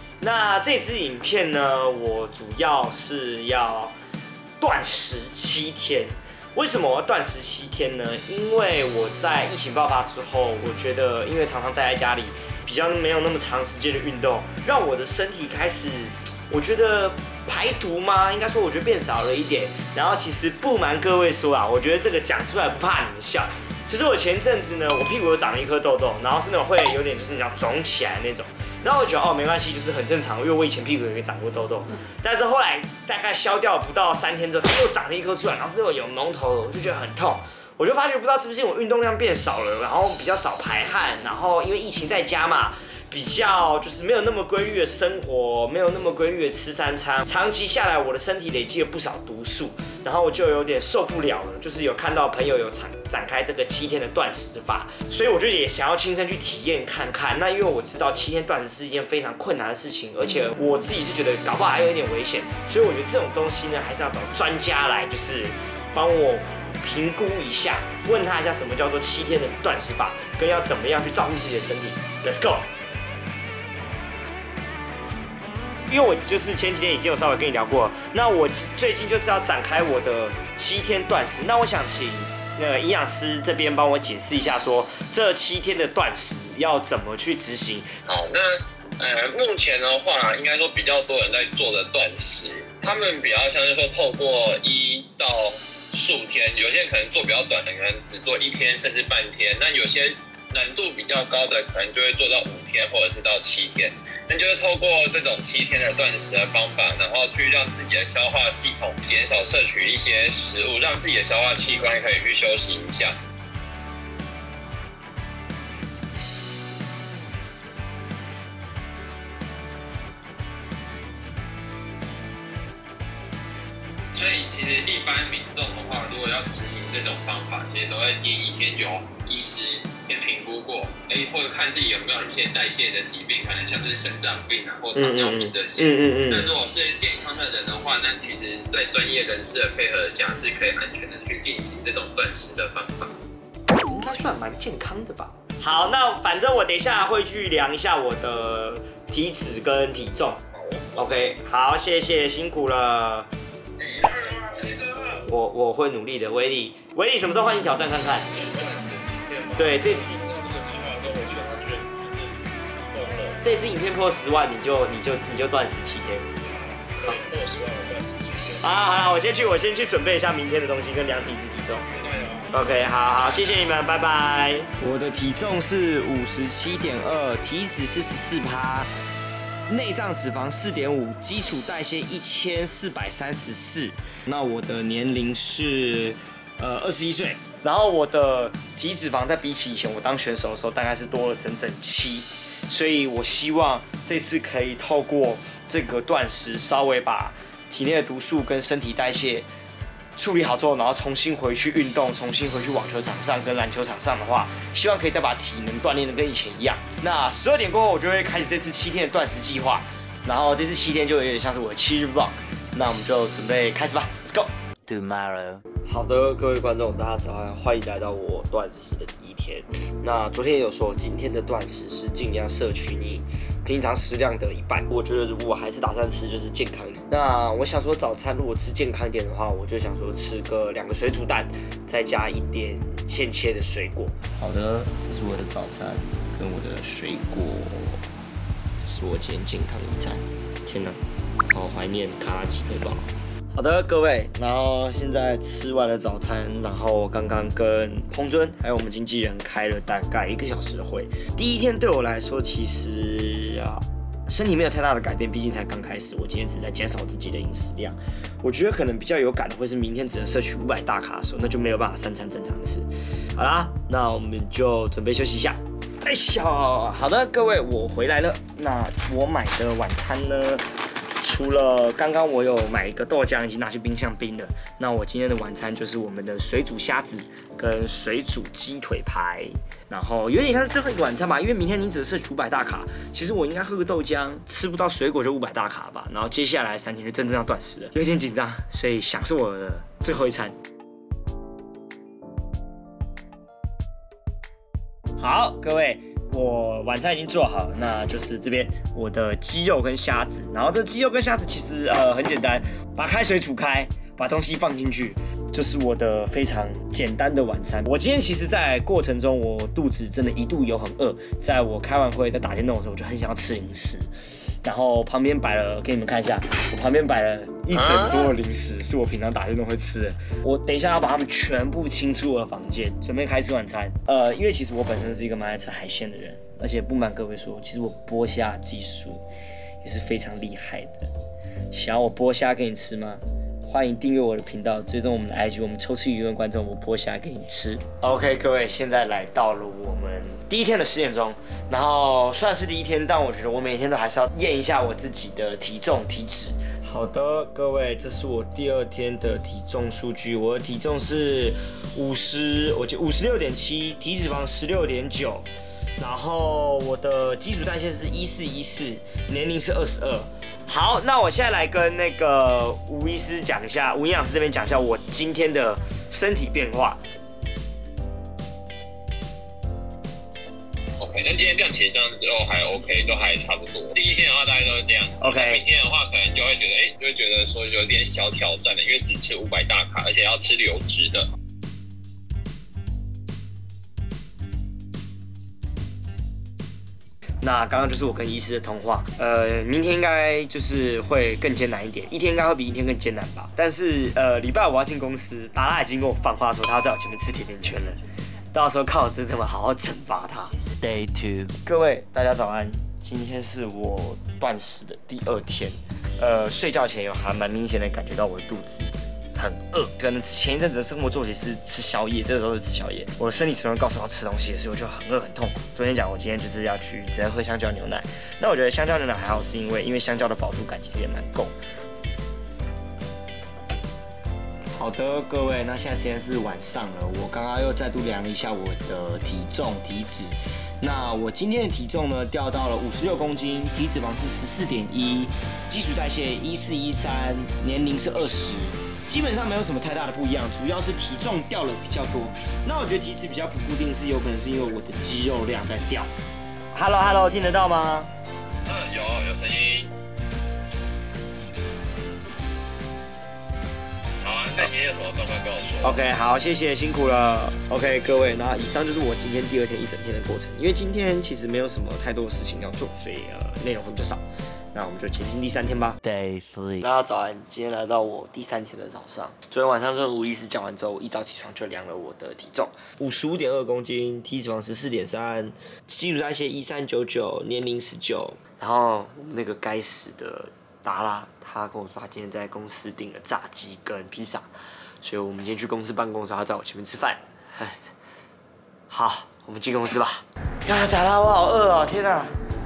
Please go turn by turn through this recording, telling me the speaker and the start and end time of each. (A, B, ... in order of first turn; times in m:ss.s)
0:00.2-0:03.9 A
0:04.6-1:12.7 A
1:15.9-1:27.9 A
1:28.1-1:53.2 B
2:04.1-2:23.1 B
2:15.0-2:16.5 A
2:23.7-2:30.4 A
2:30.5-2:31.0 B
2:30.9-2:33.3 A
2:33.8-2:35.2 B
2:35.2-2:38.3 A
2:38.3-2:43.4 B
2:39.6-2:40.1 A
2:43.4-2:46.3 A
2:46.4-2:48.6 B
2:48.6-2:51.8 A
2:51.9-2:52.5 B
2:52.5-2:58.9 A
2:53.2-2:53.6 B
2:59.7-3:19.5 A
3:20.2-3:34.5 A
3:34.8-3:35.6 C
3:35.8-3:58.0 A
3:58.8-4:30.6 A
4:31.2-4:50.5 A
4:55.2-5:14.1 A
5:14.6-5:29.2 A
5:17.7-5:18.3 B
5:29.8-5:31.1 A
5:31.7-5:55.5 A
5:56.0-6:07.0 A
6:11.0-6:21.3 B
6:15.2-6:15.6 A
6:27.4-6:40.6 A
6:40.8-6:41.5 C
6:41.6-7:01.5 A
7:04.8-7:26.1 A
7:26.7-7:28.1 A
7:28.6-7:29.9 B
7:34.2-7:36.0 B
7:35.8-7:46.0 A
7:46.0-7:46.9 C
7:46.8-8:04.4 A
8:05.0-8:07.9 A
8:08.9-8:12.3 A